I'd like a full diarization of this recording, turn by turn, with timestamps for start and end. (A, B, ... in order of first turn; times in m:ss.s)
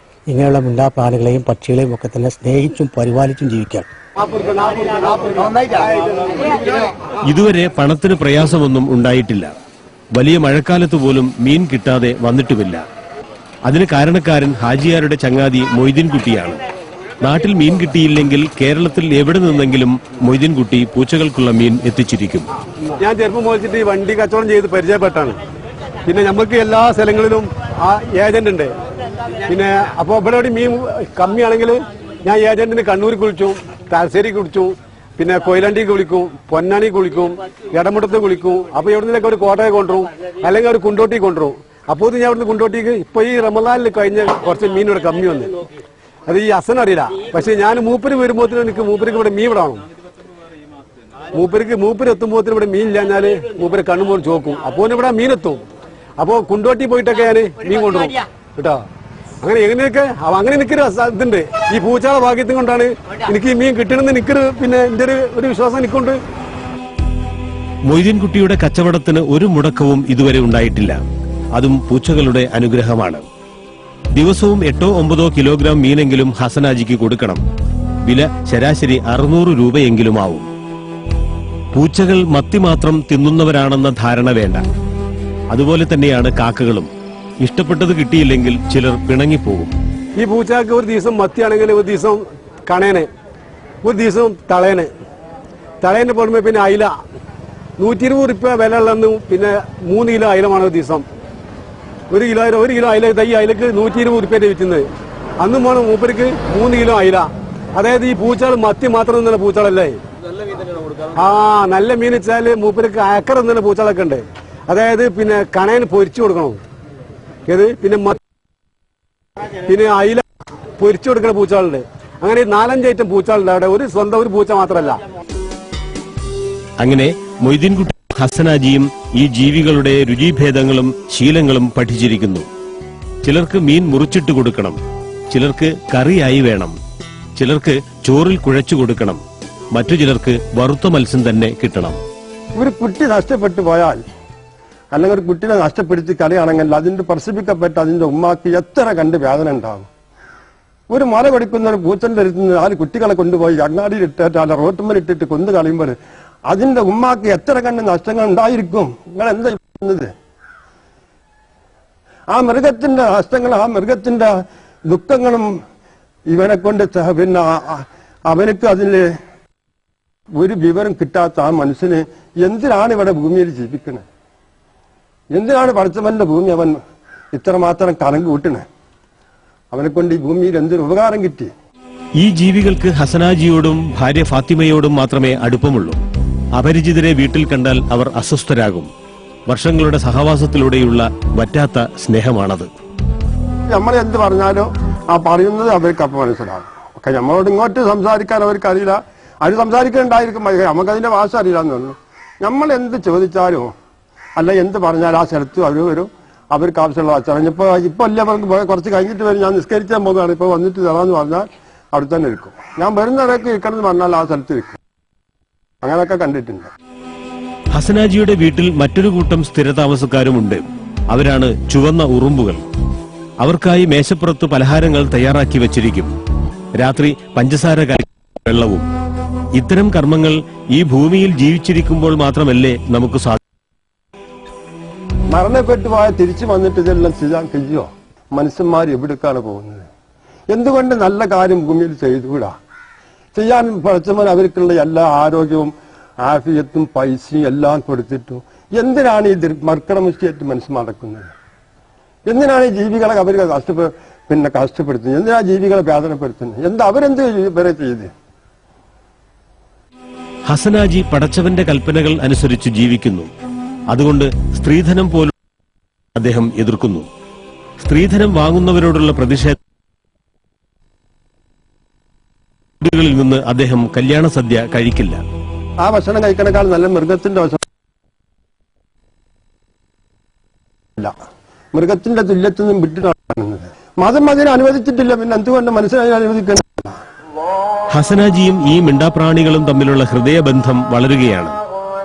0:00.3-0:03.9 A
0:04.2-0:06.8 B
0:07.2-0:09.5 C
0:10.1-0:12.8 C
0:13.7-0:16.6 C
0:17.2-0:22.5 C
0:23.0-0:25.4 B
0:26.0-0:28.7 B
0:29.4-0:45.6 B
0:46.3-0:49.8 B
0:51.3-0:55.6 B
0:56.2-0:58.8 B
0:59.4-1:06.2 B
1:07.9-1:11.0 C
1:11.5-1:13.2 C
1:14.1-1:17.4 C
1:18.0-1:20.5 C
1:21.7-1:24.6 C
1:25.5-1:26.9 C
1:27.4-1:29.7 C
1:30.2-1:33.1 B
1:33.8-1:34.9 B
1:35.8-1:36.9 B
1:37.8-1:41.0 B
1:42.1-1:44.8 B
1:45.4-1:50.0 B
1:51.1-1:56.6 B
1:57.5-1:58.2 B
1:59.6-2:00.2 B
2:00.8-2:05.0 B
2:06.8-2:12.5 C
2:13.2-2:14.8 C
2:15.3-2:16.7 C
2:17.4-2:19.2 C
2:19.7-2:22.0 C
2:22.6-2:24.0 D
2:24.9-2:29.9 D
2:30.9-2:36.0 D
2:36.5-2:40.1 D
2:42.3-2:44.3 D
2:44.8-2:45.5 D
2:46.3-2:49.1 D
2:50.4-2:54.0 D
2:55.3-2:56.8 D
2:57.3-2:58.6 D
2:59.7-3:01.5 D
3:02.2-3:06.0 C
3:06.6-3:08.9 C
3:09.5-3:12.7 C
3:13.7-3:23.7 D
3:24.4-3:34.8 D
3:35.8-3:36.7 D
3:37.7-3:42.6 C
3:43.4-3:46.1 C
3:46.8-3:48.8 C
3:49.5-3:53.4 C
3:55.3-3:59.9 D
4:00.5-4:02.5 D
4:03.3-4:11.3 D
4:12.3-4:18.1 D
4:20.5-4:23.3 C
4:23.9-4:25.3 C
4:26.2-4:27.1 C
4:27.8-4:29.6 C
4:32.8-4:35.2 C
4:35.8-4:37.6 D
4:41.7-4:47.0 D
4:47.9-4:51.6 C